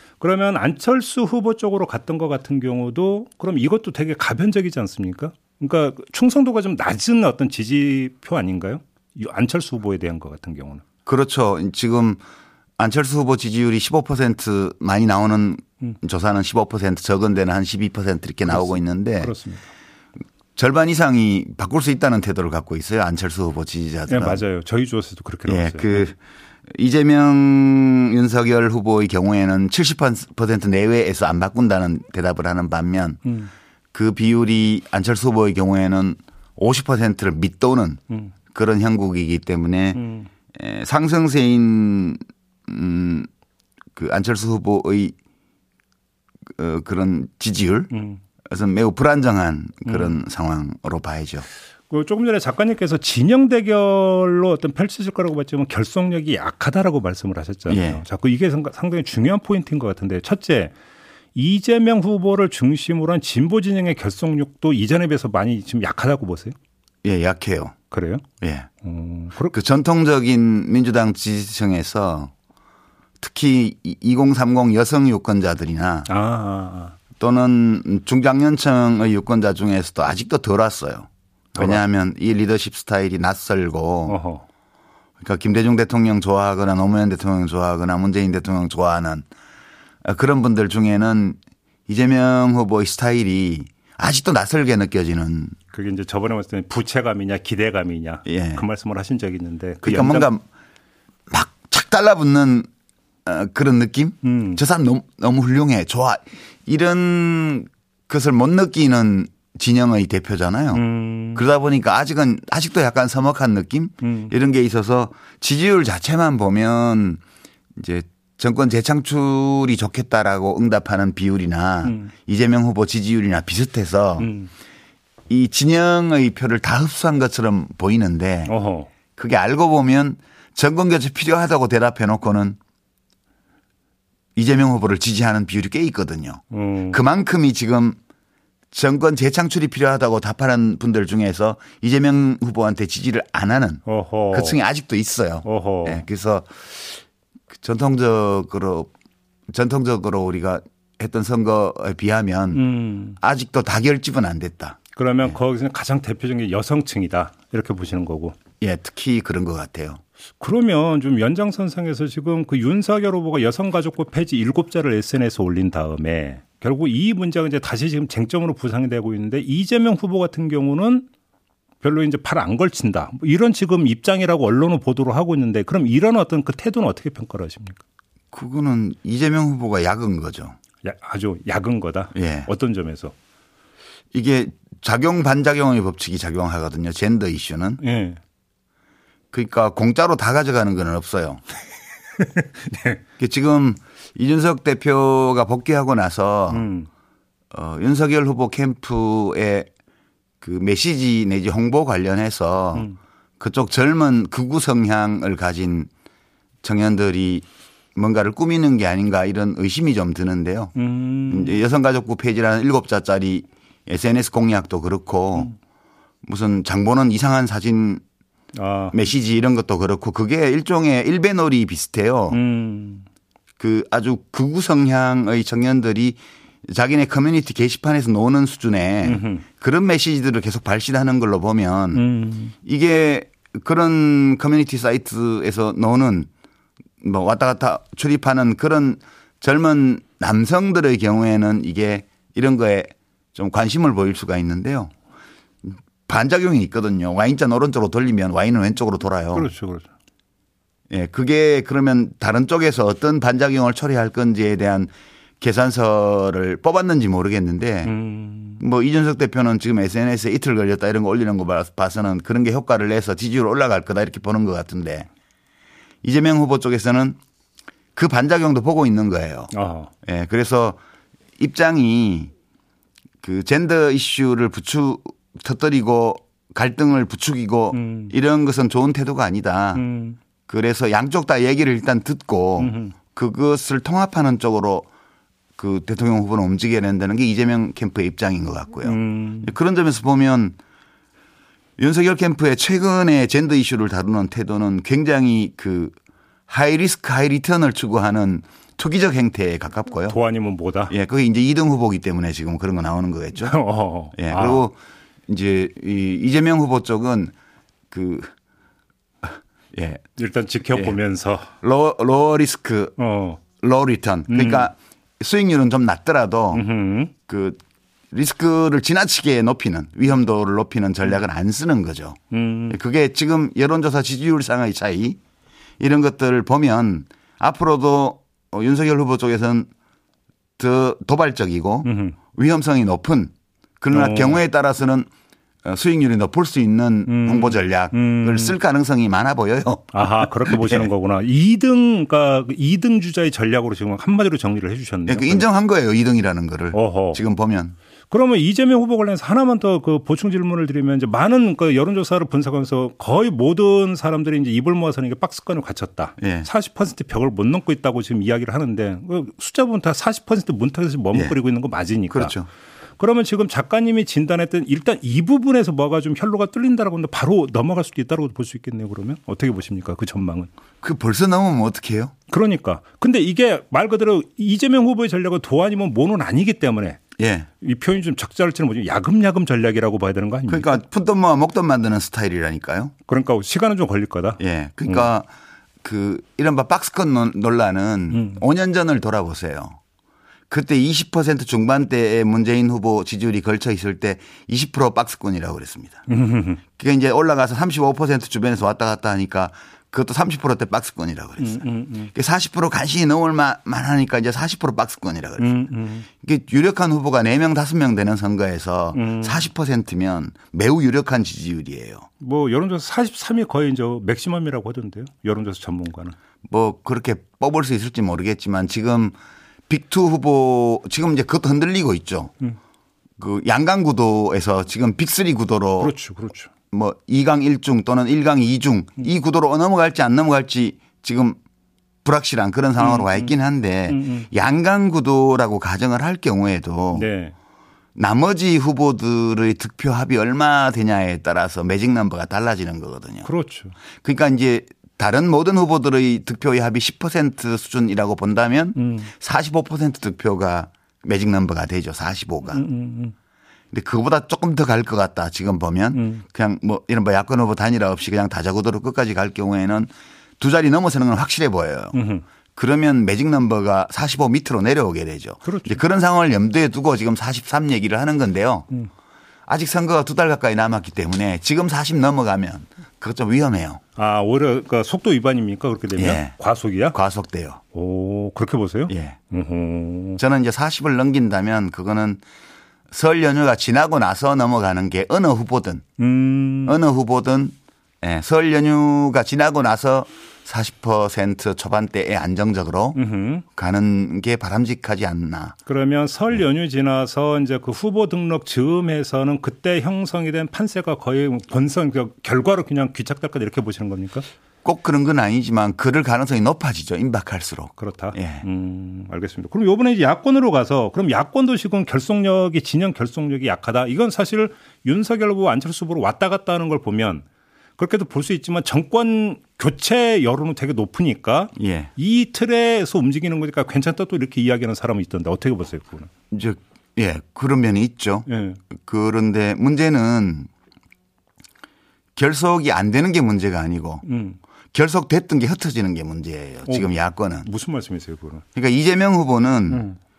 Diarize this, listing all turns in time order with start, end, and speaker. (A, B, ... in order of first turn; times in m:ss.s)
0:00.2-0:10.8 A
0:11.1-0:12.2 B
0:12.8-0:19.3 B
0:18.5-0:19.7 A
0:20.6-0:24.4 B
0:24.1-0:26.1 A
0:25.5-0:26.2 B
0:26.7-0:33.2 B
0:33.2-0:33.5 A
0:33.9-0:40.0 B
0:39.9-0:40.3 A
0:40.5-0:43.3 B
0:44.0-0:45.1 B
0:46.6-0:47.9 B
0:47.9-0:48.2 A
0:48.4-0:51.4 B
0:49.9-0:50.1 A
0:51.9-1:00.7 A
0:57.7-0:58.0 B
1:01.3-1:06.6 A
1:07.0-1:07.8 B
1:07.9-1:08.2 A
1:08.4-1:08.7 B
1:08.8-1:09.6 A
1:09.5-1:12.3 B
1:13.2-1:16.1 B
1:16.1-1:17.0 A
1:17.2-1:24.2 B
1:21.6-1:21.8 A
1:24.1-1:24.4 A
1:25.2-1:29.2 B
1:30.0-1:35.6 B
1:35.7-1:40.3 A
1:38.2-1:38.6 B
1:39.8-1:40.4 B
1:41.3-1:42.7 B
1:43.2-1:50.8 B
1:44.2-1:44.6 A
1:50.7-1:51.4 A
1:51.3-1:57.2 B
1:54.0-1:54.3 A
1:57.8-2:04.3 B
2:01.8-2:02.1 A
2:04.2-2:04.5 A
2:05.3-2:08.5 B
2:08.4-2:08.9 A
2:09.1-2:12.6 B
2:14.4-2:18.0 B
2:16.5-2:17.0 A
2:18.7-2:28.9 B
2:23.9-2:24.6 A
2:25.4-2:26.0 A
2:29.5-2:32.6 B
2:32.5-2:33.2 A
2:33.2-2:35.3 B
2:35.0-2:38.4 A
2:38.6-2:40.0 B
2:40.4-2:51.1 A
2:51.8-2:57.8 A
2:58.3-3:00.6 B
3:00.8-3:03.1 A
3:02.1-3:02.5 B
3:04.1-3:07.8 B
3:07.8-3:08.2 A
3:09.3-3:11.4 B
3:12.2-3:13.0 A
3:13.2-3:16.7 B
3:16.5-3:16.9 A
3:17.5-3:19.7 B
3:20.4-3:22.9 B
3:23.4-3:25.9 B
3:26.6-3:27.4 B
3:28.0-3:30.7 B
3:30.8-3:31.6 A
3:31.3-3:35.5 B
3:36.2-3:38.0 B
3:38.5-3:39.0 A
3:38.9-3:42.4 B
3:42.3-3:43.1 A
3:43.6-3:52.0 B
3:49.0-3:49.4 A
3:51.9-3:52.5 A
3:52.6-3:56.3 B
3:57.0-4:04.9 B
4:05.7-4:09.5 B
4:09.3-4:09.9 A
4:10.9-4:17.9 B
4:17.8-4:18.6 A
4:18.6-4:25.1 B
4:26.0-4:27.2 B
4:28.0-4:29.5 B
4:29.5-4:29.9 A
4:30.0-4:30.8 B
4:31.4-4:32.3 B
4:33.2-4:39.8 B
4:37.7-4:38.1 A
4:39.7-4:40.2 A
4:40.5-4:44.9 B
4:42.6-4:42.9 A
4:45.6-4:50.6 B
4:48.8-4:49.5 A
4:51.8-4:55.9 B
4:56.5-5:00.2 B
5:00.1-5:00.9 A
5:00.9-5:03.6 B
5:03.4-5:04.6 A
5:04.2-5:04.8 B
5:05.3-5:07.3 B
5:07.9-5:08.3 B
5:09.2-5:10.0 B
5:10.2-5:11.5 A
5:11.6-5:13.0 B
5:13.0-5:13.4 A
5:13.6-5:16.6 B
5:14.3-5:14.7 A
5:16.5-5:17.1 A
5:17.3-5:17.6 B
5:18.1-5:22.2 B
5:22.3-5:22.8 A
5:22.7-5:25.2 B
5:25.8-5:29.7 B
5:30.6-5:35.1 B
5:31.8-5:32.2 A
5:33.9-5:34.4 A
5:35.6-5:40.9 B
5:37.1-5:38.6 A
5:39.9-5:45.4 A
5:45.1-5:47.7 B
5:46.7-5:47.2 A
5:48.1-6:02.3 A
5:56.2-5:56.5 B
6:02.1-6:02.5 B
6:03.0-6:10.5 A
6:10.8-6:12.1 B
6:12.3-6:17.0 A
6:17.2-6:17.5 B
6:17.6-6:20.8 A
6:20.5-6:22.9 B
6:23.1-6:25.0 A
6:24.4-6:25.3 B
6:25.8-6:29.8 B
6:28.1-6:28.4 A
6:30.5-6:36.0 B
6:36.1-6:36.6 A
6:36.8-6:52.1 B
6:41.4-6:42.1 A
6:45.4-6:46.1 A
6:48.9-6:49.5 A
6:52.2-6:56.2 A
6:56.5-6:59.2 B
6:59.7-7:02.3 B
7:03.2-7:05.9 B
7:05.8-7:06.5 A
7:06.7-7:11.4 B
7:12.0-7:17.1 B
7:12.8-7:13.3 A
7:13.9-7:14.3 A
7:16.9-7:17.3 A
7:18.0-7:23.3 B
7:23.2-7:23.7 A
7:24.0-7:32.6 B
7:28.8-7:29.1 A
7:32.5-7:33.1 A
7:33.7-7:42.0 B
7:35.9-7:36.2 A
7:41.9-7:42.2 A
7:42.6-7:48.7 B
7:45.4-7:45.8 A
7:49.5-7:53.8 B
7:54.0-7:57.0 A
7:56.0-7:56.3 B
7:56.9-7:57.6 B
7:57.7-8:00.2 A
7:58.9-7:59.2 B
8:00.2-8:02.2 B
8:02.9-8:05.8 B
8:06.0-8:06.8 A
8:06.7-8:13.0 B
8:12.9-8:13.4 A
8:13.6-8:15.6 B
8:15.7-8:24.3 A
8:24.6-8:28.4 B
8:27.8-8:37.2 A
8:37.8-8:46.1 A
8:41.6-8:41.9 B
8:46.3-8:50.5 B
8:48.3-8:48.6 A
8:52.2-8:54.0 B
8:54.0-8:54.4 A
8:54.7-8:57.5 B
8:56.6-8:58.4 A
8:58.6-8:59.9 B
8:59.7-9:00.0 A